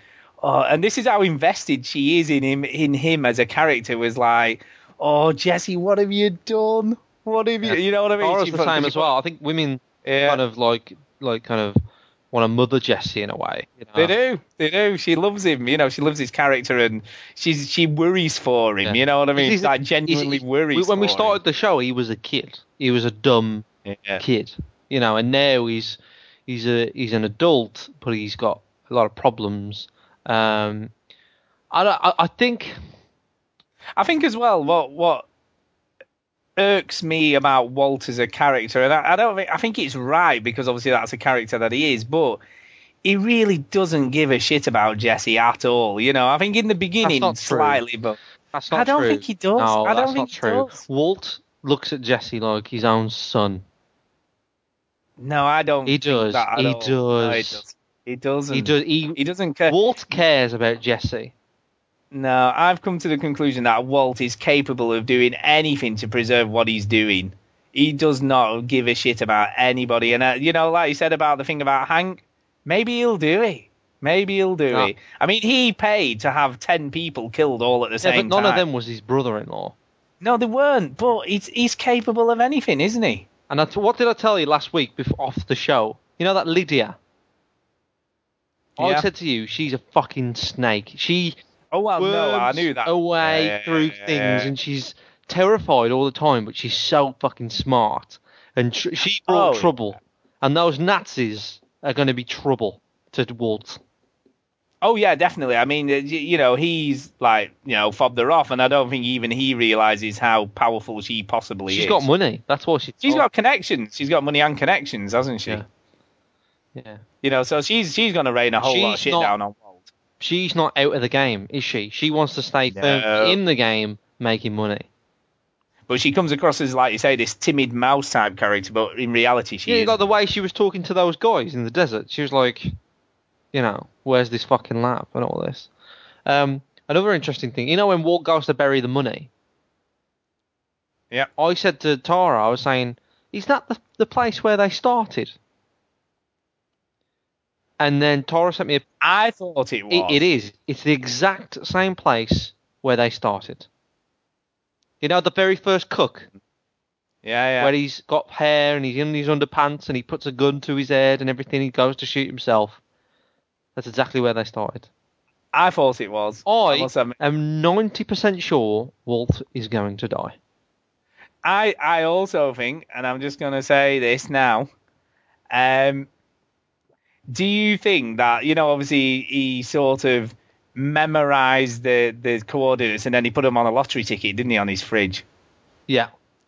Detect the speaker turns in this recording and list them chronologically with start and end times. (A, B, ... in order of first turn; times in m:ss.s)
0:00.4-0:09.1 A
0:07.6-0:11.8 B
0:10.0-0:10.4 A
0:12.3-0:14.1 B
0:14.0-0:21.4 A
0:18.8-0:23.7 B
0:23.9-0:24.2 A
0:24.2-0:30.9 B
0:31.7-0:32.8 B
0:34.0-0:35.2 A
0:36.6-0:42.4 A
0:43.0-0:48.2 A
0:47.0-0:47.8 B
0:48.5-0:53.6 B
0:48.7-0:50.8 A
0:55.2-0:59.8 A
0:55.9-0:57.6 B
0:58.5-1:01.3 B
1:02.1-1:18.6 A
1:18.0-1:19.7 B
1:20.2-1:23.2 A
1:23.5-1:27.0 B
1:28.8-1:29.1 A
1:28.8-1:31.4 B
1:31.7-1:34.5 A
1:32.0-1:43.8 B
1:39.3-1:39.8 A
1:44.8-1:52.0 A
1:51.7-1:53.3 B
1:53.0-1:55.6 A
1:56.8-1:57.0 B
1:57.2-1:59.9 A
1:58.6-1:59.3 B
2:00.2-2:04.9 B
2:02.7-2:03.4 A
2:05.9-2:10.0 A
2:09.7-2:12.7 B
2:13.5-2:15.7 B
2:16.3-2:19.3 B
2:21.4-2:25.4 B
2:27.8-2:28.9 B
2:29.0-2:30.2 A
2:29.9-2:33.7 B
2:35.0-2:36.3 B
2:37.2-2:37.7 A
2:37.6-2:42.8 B
2:43.8-2:44.9 B
2:45.5-2:47.2 A
2:46.5-2:50.4 B
2:51.4-2:54.7 A
2:55.5-2:56.1 A
2:57.3-3:05.2 A